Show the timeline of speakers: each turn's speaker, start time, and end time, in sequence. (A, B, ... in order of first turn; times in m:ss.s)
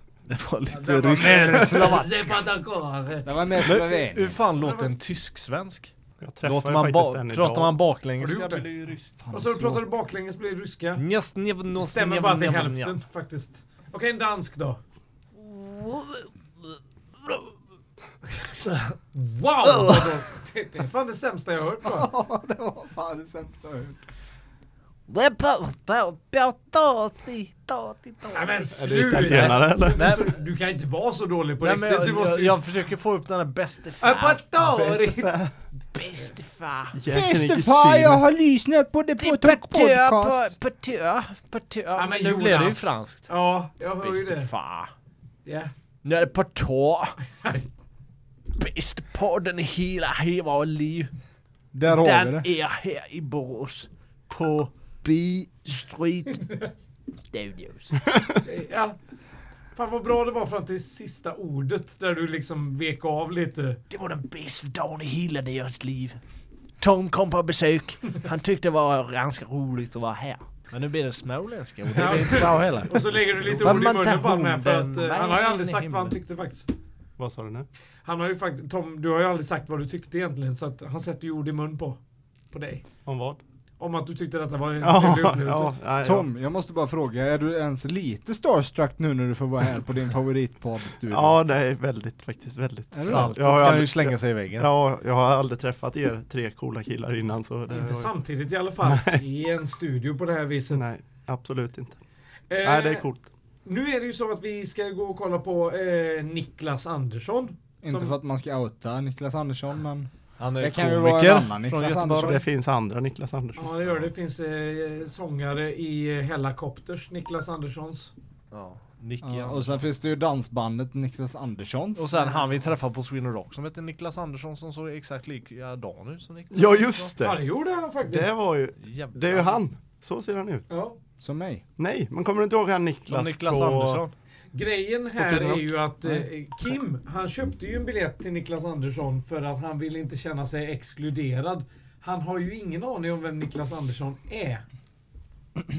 0:00.3-0:02.0 A
0:00.8-0:03.3 B
0:00.8-0:02.4 C
0:03.2-0:04.4 C
0:03.6-0:05.9 A
0:04.6-0:05.0 B
0:06.2-0:07.8 D
0:06.4-0:09.1 A
0:08.2-0:08.7 B
0:09.2-0:09.9 C
0:09.3-0:11.0 B
0:11.0-0:13.0 A
0:11.8-0:14.8 B
0:15.4-0:16.3 A
0:18.4-0:22.1 B
0:19.7-0:20.1 A
0:21.8-0:24.0 C
0:25.1-0:28.5 A
0:28.3-0:32.7 B
0:28.7-0:30.1 D
0:29.2-0:30.3 A
0:31.6-0:34.8 A
0:34.0-0:35.4 B
0:34.8-0:35.5 D
0:35.9-0:37.0 A
0:36.9-0:38.2 D
0:37.1-0:40.5 C
0:39.2-0:43.3 A
0:41.9-0:44.5 B
0:44.0-0:44.9 A
0:45.4-0:45.7 B
0:46.0-0:47.2 A
0:47.4-0:47.7 B
0:48.6-0:51.1 A
0:51.7-0:52.5 C
0:51.8-0:56.5 A
0:57.3-0:58.1 A
0:58.4-0:59.0 B
0:59.8-1:03.8 B
1:03.9-1:06.2 A
1:06.8-1:16.2 A
1:12.0-1:16.7 B
1:17.2-1:17.7 D
1:18.0-1:22.0 B
1:22.5-1:22.8 B
1:23.1-1:23.4 D
1:23.8-1:25.8 B
1:24.8-1:26.3 D
1:26.0-1:31.4 C
1:31.1-1:38.1 D
1:32.9-1:33.6 C
1:33.0-1:34.7 A
1:37.7-1:40.9 B
1:38.8-1:39.2 D
1:40.7-1:42.0 D
1:42.5-1:43.1 B
1:42.6-1:43.3 D
1:43.6-1:48.2 B
1:47.8-1:52.4 C
1:50.4-1:52.4 A
1:52.2-1:53.7 D
1:53.6-1:58.1 B
1:58.5-1:59.9 A
1:59.2-2:02.2 C
2:02.0-2:07.1 A
2:02.2-2:02.4 B
2:06.5-2:07.4 D
2:07.2-2:08.3 B
2:08.1-2:10.7 D
2:08.8-2:09.6 A
2:10.7-2:11.0 B
2:11.2-2:11.6 C
2:11.8-2:14.0 D
2:13.1-2:14.1 A
2:14.5-2:24.6 B
2:15.2-2:15.7 D